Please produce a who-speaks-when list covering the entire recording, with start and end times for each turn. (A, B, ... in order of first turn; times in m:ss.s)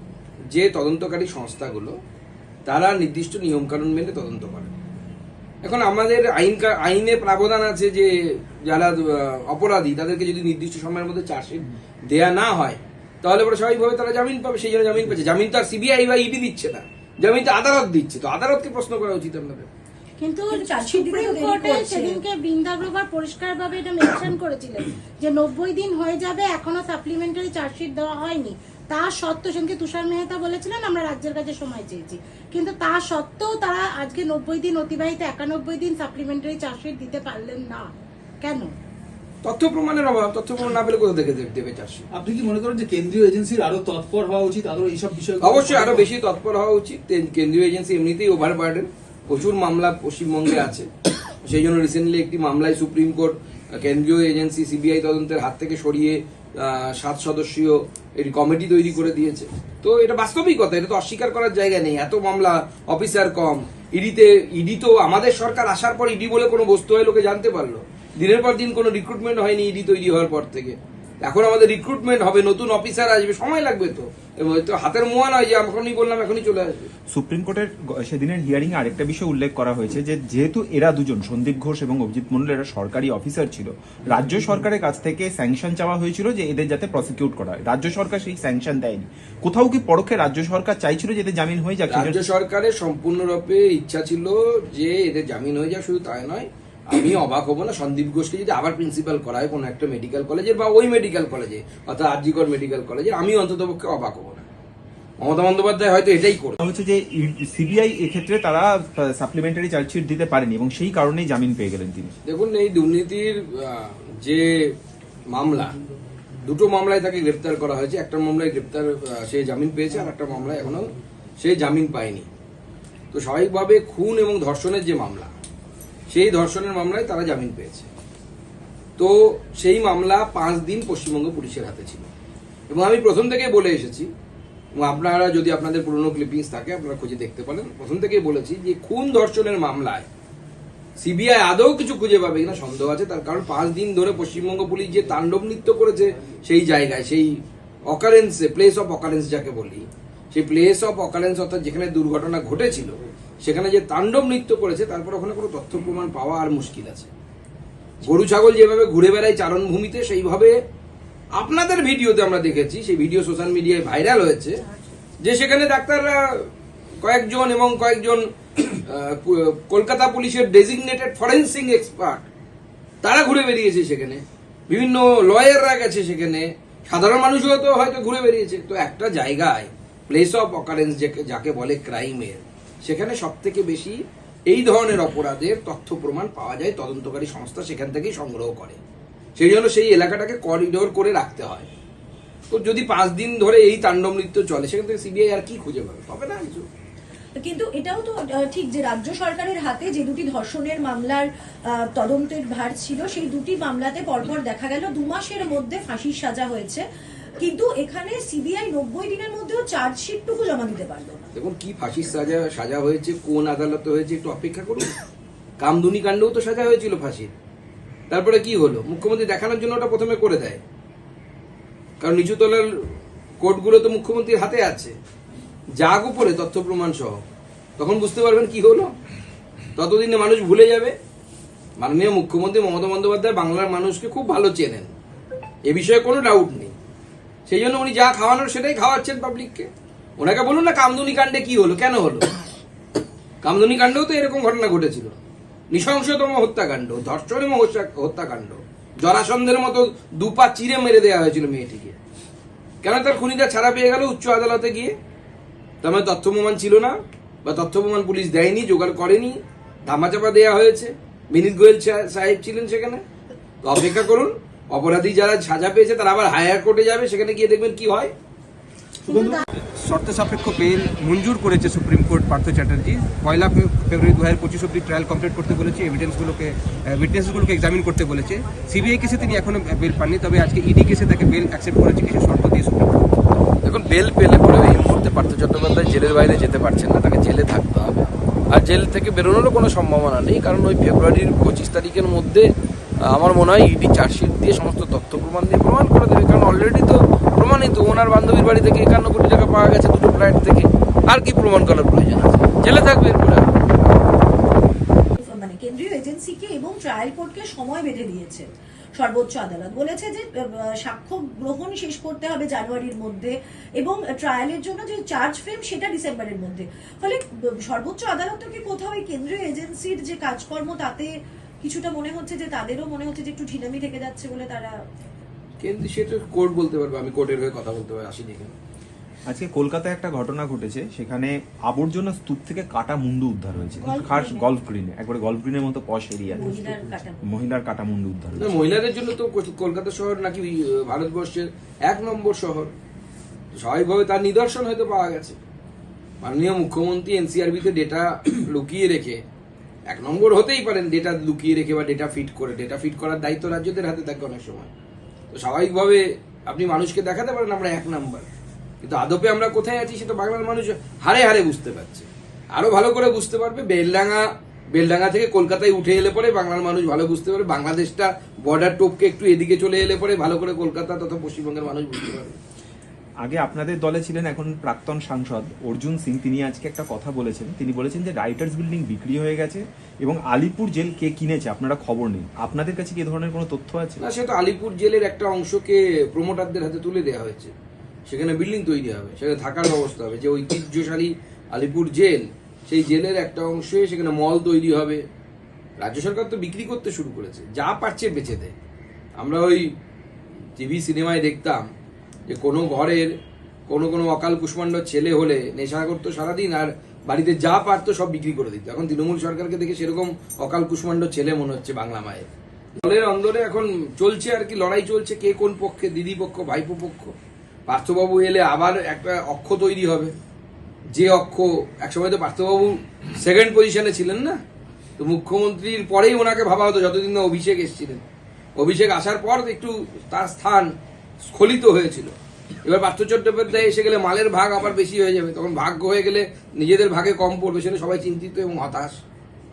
0:00.5-0:02.0 A
0:02.7-0:04.7 A
0:05.6-0:19.7 A
0:20.2-0:37.9 B
0:20.5-0:22.2 C
0:38.4-0:38.7 B
0:39.4-0:42.0 A
0:42.1-0:46.1 D
0:45.4-0:50.9 A
0:51.4-1:16.9 A
1:17.1-1:32.2 E
1:31.9-1:44.5 A
1:45.2-1:46.6 A
1:46.6-1:52.2 E
1:52.2-1:54.8 A
1:55.3-1:55.8 A
1:56.4-2:02.3 A
2:03.1-2:05.3 A
2:06.1-2:07.9 A
2:09.0-2:12.1 A
2:12.7-2:14.1 A
2:14.8-2:20.1 A
2:21.0-2:37.1 A
2:38.0-2:40.6 A
2:41.4-2:44.6 A
2:45.2-2:46.5 A
2:47.0-2:52.3 A
2:53.0-3:04.0 A
3:04.5-3:08.8 A
3:09.4-3:11.7 A
3:12.5-3:16.7 A
3:17.4-3:21.3 C
3:21.9-3:26.8 C
3:27.4-3:31.3 C
3:31.4-3:34.9 A
3:35.6-3:37.3 A
3:38.1-3:40.6 A
3:42.0-3:42.7 A
3:43.4-3:45.0 A
3:45.8-3:47.2 A
3:47.8-3:48.9 A
3:49.8-3:51.0 A
3:51.8-3:54.9 A
3:55.7-3:56.8 A
3:57.5-4:02.3 A
4:03.4-4:05.2 A
4:05.7-4:12.0 A
4:12.8-4:15.0 A
4:15.8-4:23.0 A
4:23.6-4:28.1 A
4:29.1-4:29.4 B
4:29.6-4:43.0 F
4:43.6-4:52.5 A
4:53.1-5:03.5 A
5:05.2-5:21.1 C
5:21.6-5:24.8 C
5:25.6-5:28.6 A
5:29.3-5:38.7 E
5:33.8-5:34.5 B
5:36.3-5:37.3 C
5:38.4-5:42.7 A
5:43.6-5:45.4 A
5:46.2-5:49.2 A
5:49.9-5:54.7 A
5:55.3-5:58.3 A
5:58.8-6:12.4 A
6:13.2-6:24.0 E
6:24.0-6:27.5 A
6:28.1-6:35.0 A
6:35.8-6:38.5 A
6:39.2-6:39.7 A
6:40.6-6:41.7 A
6:42.3-6:43.1 A
6:43.7-6:57.2 A
6:57.7-7:00.1 A
7:01.0-7:04.4 A
7:05.0-7:08.0 A
7:08.6-7:10.7 A
7:11.3-7:12.1 A
7:12.6-7:19.0 A